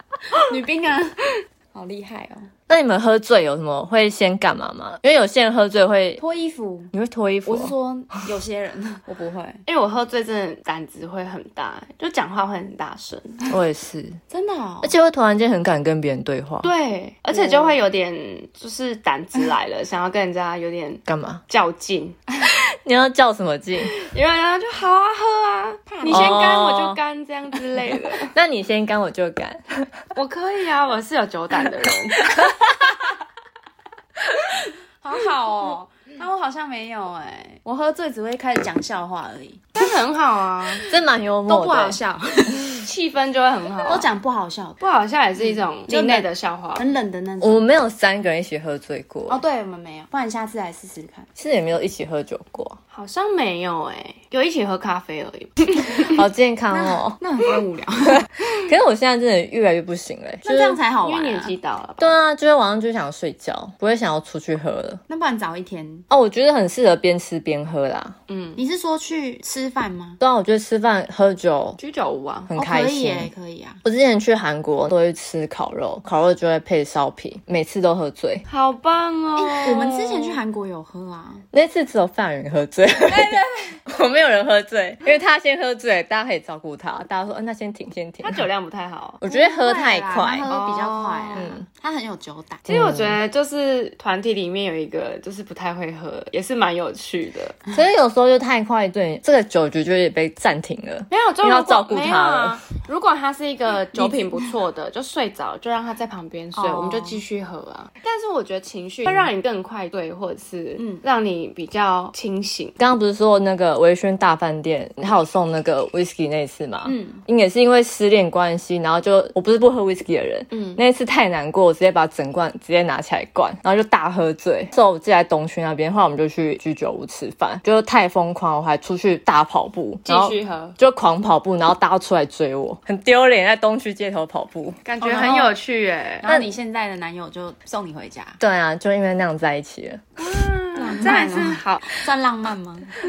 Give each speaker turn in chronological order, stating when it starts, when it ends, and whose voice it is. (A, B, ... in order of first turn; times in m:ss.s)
0:00.3-0:02.5 A
0:02.7-0:06.2 B
0:06.2-0:06.9 A
0:06.9-0:07.7 B
0:07.5-0:09.6 A
0:09.7-0:13.5 C
0:13.5-0:14.2 B
0:14.3-0:14.9 A
0:14.8-0:16.7 B
0:16.6-0:22.2 C
0:21.1-0:21.4 B
0:22.8-0:23.9 B
0:23.8-0:28.3 C
0:25.9-0:26.5 A
0:26.1-0:27.0 B
0:28.1-0:30.0 B
0:30.2-0:32.5 C
0:35.0-0:39.9 A
0:39.8-0:40.9 C
0:40.8-0:42.9 A
0:40.9-0:42.0 B
0:42.7-0:44.1 C
0:43.8-0:44.8 A
0:44.8-0:46.9 C
0:45.8-0:47.6 A
0:47.4-0:49.4 B
0:49.3-0:51.3 A
0:51.4-0:52.8 B
0:52.9-0:56.2 C
0:56.1-0:57.2 B
0:56.7-0:58.3 A
0:58.2-1:00.8 B
1:00.4-1:01.5 A
1:01.0-1:02.2 C
1:02.0-1:05.0 B
1:05.1-1:06.1 A
1:06.1-1:08.2 B
1:08.3-1:08.6 C
1:08.6-1:10.2 A
1:10.2-1:11.8 B
1:11.8-1:12.5 C
1:12.5-1:13.3 B
1:12.6-1:13.8 A
1:13.8-1:18.4 B
1:18.5-1:20.4 C
1:19.4-1:21.4 A
1:21.5-1:28.5 B
1:23.1-1:23.8 A
1:28.2-1:29.2 C
1:29.2-1:30.5 B
1:29.2-1:32.6 A
1:30.5-1:31.6 C
1:31.4-1:31.6 B
1:32.7-1:33.2 B
1:32.7-1:37.6 C
1:37.7-1:42.6 B
1:41.1-1:52.8 C
1:44.0-1:44.4 A
1:46.6-1:47.2 A
1:50.8-1:51.0 A
1:52.8-2:14.8 B
1:56.8-1:57.2 A
2:00.5-2:00.8 C
2:10.0-2:10.8 C
2:14.8-2:16.3 C
2:15.0-2:15.6 A
2:16.2-2:18.4 A
2:16.3-2:16.5 B
2:18.4-2:20.0 B
2:20.2-2:22.0 C
2:20.8-2:23.0 A